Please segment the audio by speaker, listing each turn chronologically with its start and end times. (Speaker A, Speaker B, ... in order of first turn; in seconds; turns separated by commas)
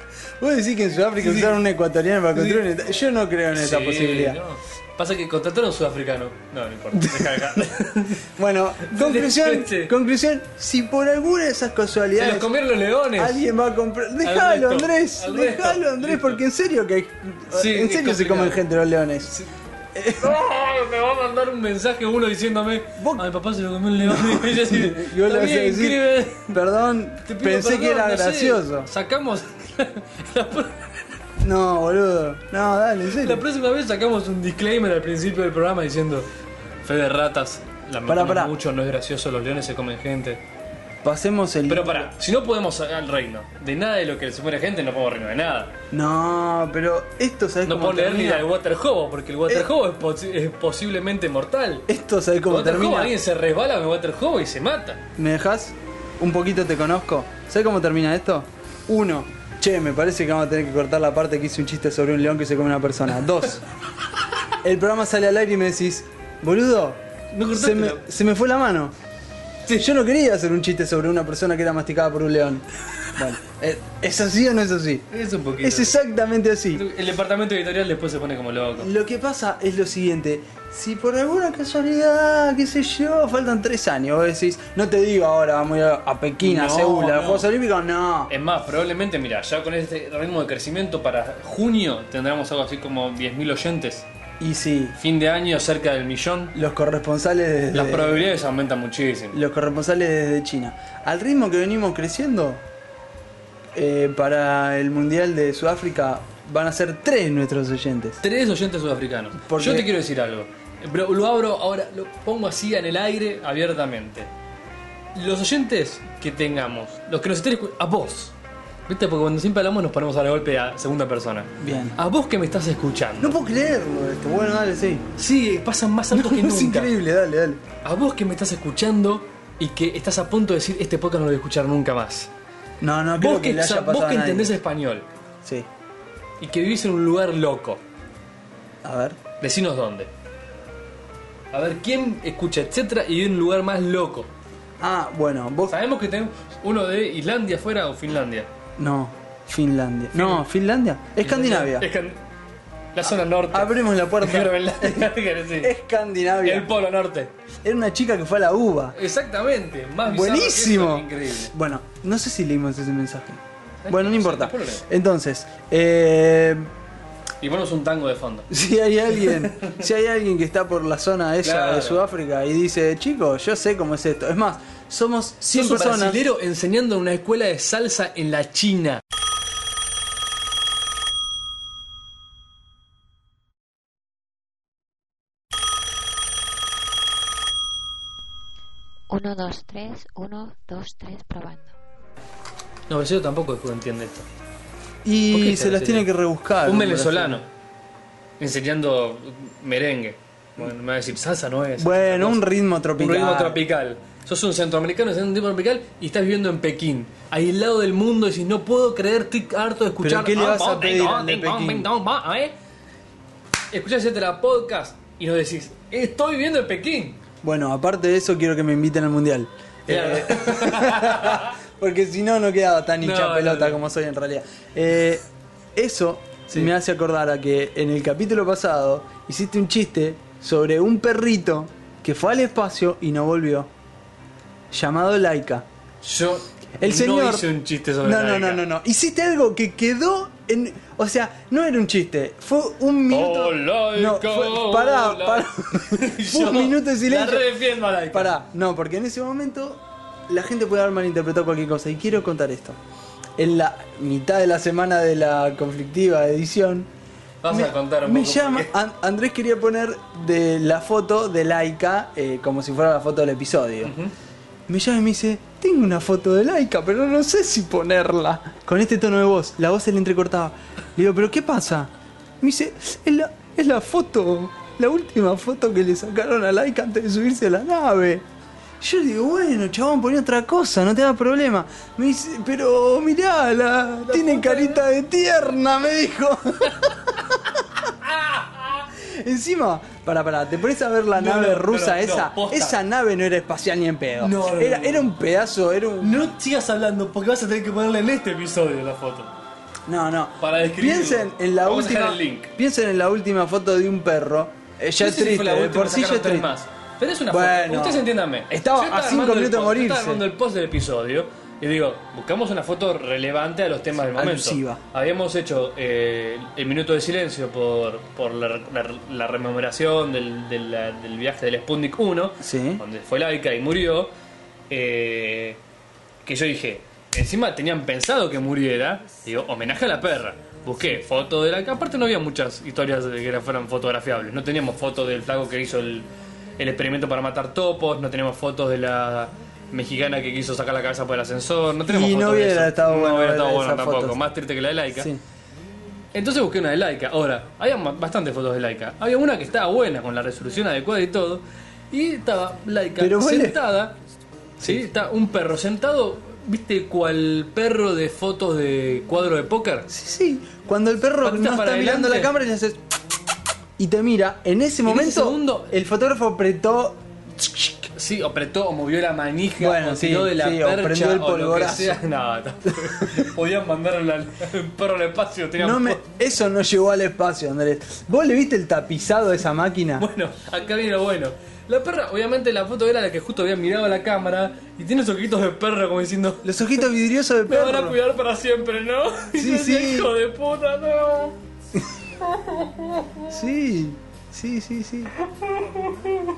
Speaker A: 0.4-4.4, Speaker B: 1.2-1.6, Speaker B: 2.3-2.6, Speaker B: 3.5-8.3, Speaker A: 6.9-7.7, Speaker A: 8.2-12.5, Speaker B: 8.8-9.9, Speaker B: 12.2-13.4, Speaker A: 13.1-19.4, Speaker B: 14.2-16.4, Speaker B: 17.5-18.6, Speaker A: 19.9-20.3, Speaker B: 20.2-26.6, Speaker A: 22.9-23.3, Speaker A: 24.0-28.9, Speaker B: 27.2-30.9, Speaker A: 31.4-33.4, Speaker B: 33.2-36.3, Speaker B: 36.8-40.4, Speaker A: 38.0-38.5, Speaker A: 41.0-42.1, Speaker B: 41.7-45.7, Speaker A: 45.9-48.5, Speaker B: 47.6-51.9, Speaker A: 51.9-53.1, Speaker B: 52.5-55.0, Speaker A: 55.2-63.6, Speaker A: 64.6-68.9, Speaker B: 67.3-68.0, Speaker A: 69.7-75.1, Speaker B: 75.1-75.9, Speaker A: 75.6-76.9, Speaker B: 76.7-78.9, Speaker A: 78.8-88.3, Speaker B: 86.4-87.5, Speaker B: 88.3-94.0, Speaker A: 94.4-95.0, Speaker B: 95.0-96.5, Speaker A: 96.5-98.3, Speaker B: 97.7-99.4, Speaker A: 99.3-102.6, Speaker A: 103.7-108.2, Speaker B: 108.2-114.3, Speaker A: 109.5-109.9, Speaker B: 115.1-118.3, Speaker B: 118.9-123.4, Speaker A: 121.6-122.0, Speaker A: 123.2-125.1, Speaker B: 125.2-126.9, Speaker A: 126.1-127.6, Speaker B: 127.8-132.3, Speaker A: 132.8-134.6, Speaker B: 133.2-135.1, Speaker B: 136.4-137.8, Speaker A: 138.8-139.2, Speaker B: 139.4-140.1, Speaker B: 141.5-144.3, Speaker A: 144.8-145.8, Speaker B: 145.7-148.5, Speaker A: 148.8-151.9, Speaker B: 150.1-150.4, Speaker B: 151.2-152.2, Speaker B: 152.9-155.7, Speaker A: 153.5-156.7, Speaker B: 156.4-157.3, Speaker A: 157.6-158.9, Speaker B: 158.9-161.5, Speaker A: 160.0-166.7, Speaker B: 163.8-164.8, Speaker B: 167.4-168.5, Speaker A: 168.5-176.2, Speaker B: 169.3-169.8, Speaker B: 171.4-172.0, Speaker B: 175.5-179.0, Speaker C: 189.1-191.8, Speaker B: 192.9-194.2, Speaker A: 195.0-197.4, Speaker B: 195.3-196.1, Speaker B: 196.6-197.4, Speaker B: 198.4-212.5, Speaker A: 201.8-203.6, Speaker A: 210.0-211.9, Speaker B: 213.7-217.2, Speaker A: 217.4-233.7, Speaker B: 219.9-221.5, Speaker B: 223.0-223.8, Speaker A: 234.7-235.7, Speaker B: 236.0-238.7, Speaker A: 236.8-237.5, Speaker A: 238.0-247.6, Speaker B: 243.1-248.3, Speaker A: 248.1-252.8, Speaker A: 253.4-256.9, Speaker B: 257.4-258.7, Speaker A: 257.5-263.9, Speaker B: 263.8-264.1, Speaker A: 264.7-278.2, Speaker A: 278.8-287.6, Speaker B: 284.1-284.8, Speaker B: 288.0-288.8, Speaker A: 288.9-296.2, Speaker B: 291.1-292.8, Speaker B: 294.2-295.1, Speaker B: 296.0-299.3, Speaker A: 299.9-306.5, Speaker B: 300.4-302.5, Speaker B: 305.0-324.1, Speaker A: 307.3-310.2, Speaker A: 314.1-314.8, Speaker A: 322.4-322.8, Speaker B: 324.7-325.6, Speaker B: 326.2-336.1, Speaker B: 336.6-345.1, Speaker A: 341.9-344.2, Speaker A: 344.9-345.2, Speaker B: 346.1-354.0, Speaker A: 353.0-353.6, Speaker B: 354.6-359.9, Speaker A: 359.9-362.8, Speaker B: 361.2-362.3, Speaker A: 363.8-367.9, Speaker B: 364.8-365.7, Speaker B: 367.9-376.0, Speaker A: 369.6-372.0, Speaker A: 372.8-373.2, Speaker A: 375.6-380.1, Speaker B: 380.0-386.6, Speaker A: 386.4-388.0, Speaker B: 387.5-391.3, Speaker A: 389.3-390.1, Speaker B: 392.4-392.7, Speaker A: 393.3-395.1, Speaker B: 395.6-396.0